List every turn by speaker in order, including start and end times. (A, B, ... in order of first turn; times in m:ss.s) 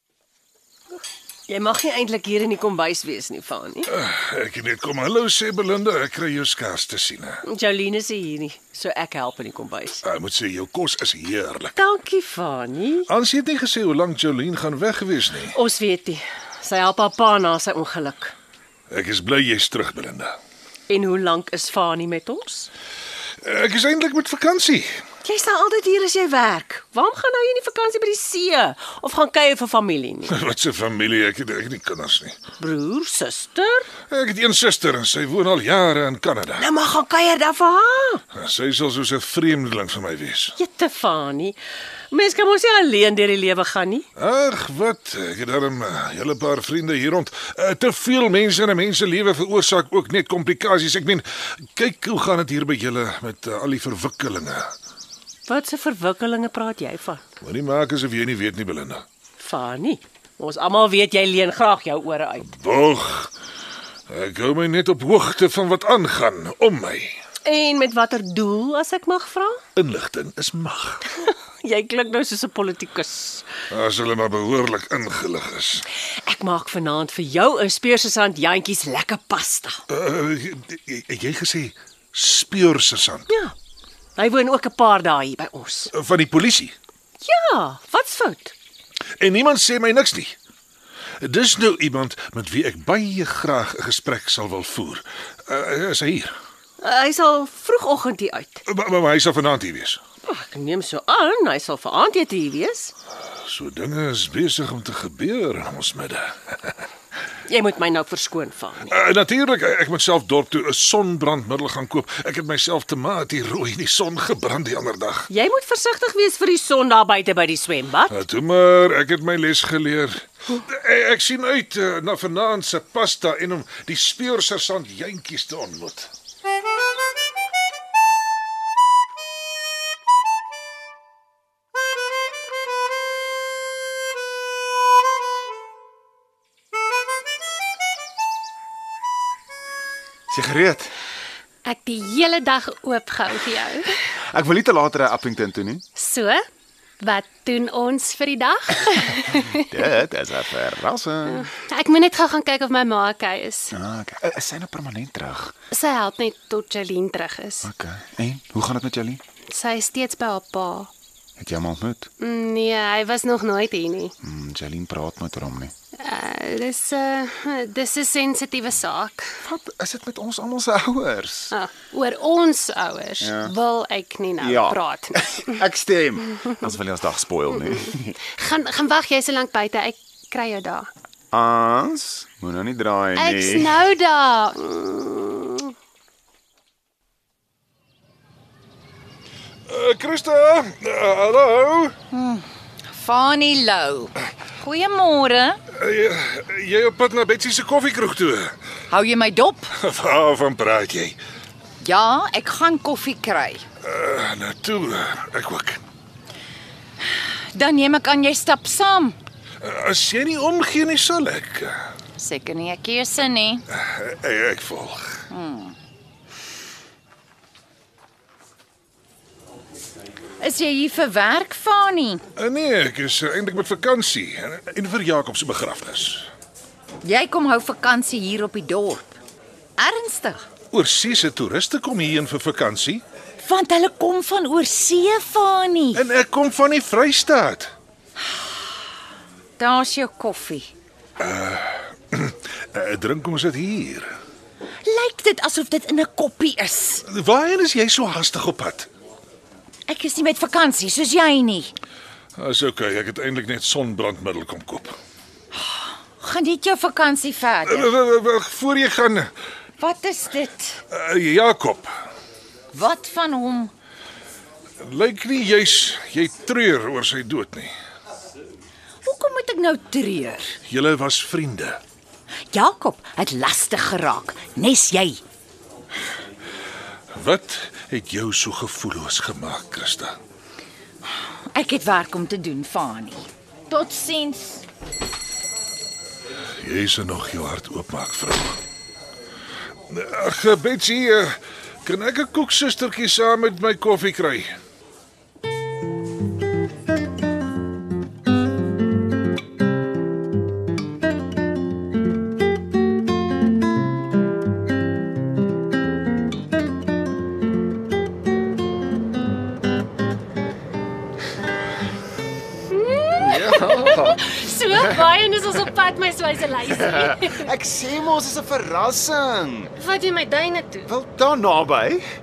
0:01.5-0:03.9 A
0:03.9-0:07.4 B
0:07.5-0:10.0 A
0:10.0-0:11.8 B
0:11.8-0:13.0 A
0:13.1-0:15.6 B
0:15.5-0:18.3 A
0:18.9-0:20.4 B
0:20.9-0:22.7 A
0:23.4-0:25.0 B
0:25.2-0:30.3 A
0:30.3-0:32.4 B
0:32.6-0:33.9 A
0:34.0-0:36.7 B
0:36.6-0:38.2 A
0:38.3-0:40.6 B
0:40.6-0:41.6 A
0:42.1-0:44.1 A
0:44.2-0:54.7 B
0:55.5-0:57.2 A
0:57.4-0:59.0 B
0:59.4-1:02.5 A
1:02.4-1:03.3 B
1:04.1-1:07.2 B
1:07.4-1:09.6 A
1:09.8-1:11.1 B
1:11.2-1:13.5 A
1:13.7-1:15.8 B
1:16.1-1:19.8 A
1:19.9-1:23.3 B
1:24.2-1:25.9 A
1:25.9-1:26.8 B
1:27.2-1:28.5 A
1:29.2-1:30.4 B
1:31.2-1:36.4 B
1:36.8-1:38.6 A
1:38.7-1:40.0 B
1:40.3-1:42.9 A
1:43.4-1:46.8 B
1:47.5-1:48.9 A
1:48.8-1:55.3 B
1:55.3-1:58.2 A
1:58.1-2:06.1 B
2:20.3-2:20.9 C
2:21.7-2:24.0 D
2:24.1-2:25.8 C
2:26.0-2:26.4 D
2:27.0-2:29.7 D
2:29.6-2:31.5 C
2:31.3-2:33.7 D
2:33.7-2:35.5 C
2:35.7-2:37.7 D
2:37.6-2:39.2 C
2:39.5-2:40.9 D
2:41.4-2:42.1 C
2:42.2-2:44.1 D
2:44.2-2:45.7 C
2:46.0-2:49.4 D
2:49.4-2:51.5 C
2:51.5-2:55.6 D
2:53.2-2:53.6 C
2:54.4-2:58.2 C
2:58.3-3:00.9 D
3:01.3-3:03.8 C
3:03.2-3:05.7 D
3:09.7-3:12.0 B
3:12.1-3:15.6 E
3:15.8-3:18.6 B
3:18.9-3:19.7 E
3:19.8-3:21.2 B
3:21.8-3:23.6 E
3:23.8-3:25.8 B
3:27.5-3:29.2 E
3:29.6-3:31.8 B
3:32.2-3:33.6 E
3:33.7-3:35.2 B
3:35.3-3:35.8 E
3:40.4-3:42.2 E
3:42.4-3:46.3 B
3:47.0-3:49.2 E
3:49.8-3:50.5 E
3:50.7-3:53.0 B
3:53.4-3:56.0 E
3:55.9-3:57.7 B
3:59.6-4:00.7 E
4:01.2-4:04.1 B
4:04.8-4:07.0 E
4:07.1-4:08.9 B
4:09.9-4:11.7 E
4:12.4-4:15.0 B
4:15.6-4:17.9 E
4:17.6-4:19.3 B
4:19.8-4:20.8 E
4:20.9-4:21.9 B
4:22.7-4:23.7 E
4:24.8-4:27.7 B
4:29.0-4:30.6 E
4:30.7-4:31.8 B
4:32.5-4:35.2 E
4:37.1-4:40.2 B
4:41.5-4:44.6 E
4:46.6-4:48.6 B
4:49.9-4:54.5 B
5:12.7-5:17.5 D
5:13.2-5:15.1 C
5:16.6-5:19.7 C
5:19.8-5:20.9 D
5:20.9-5:22.0 C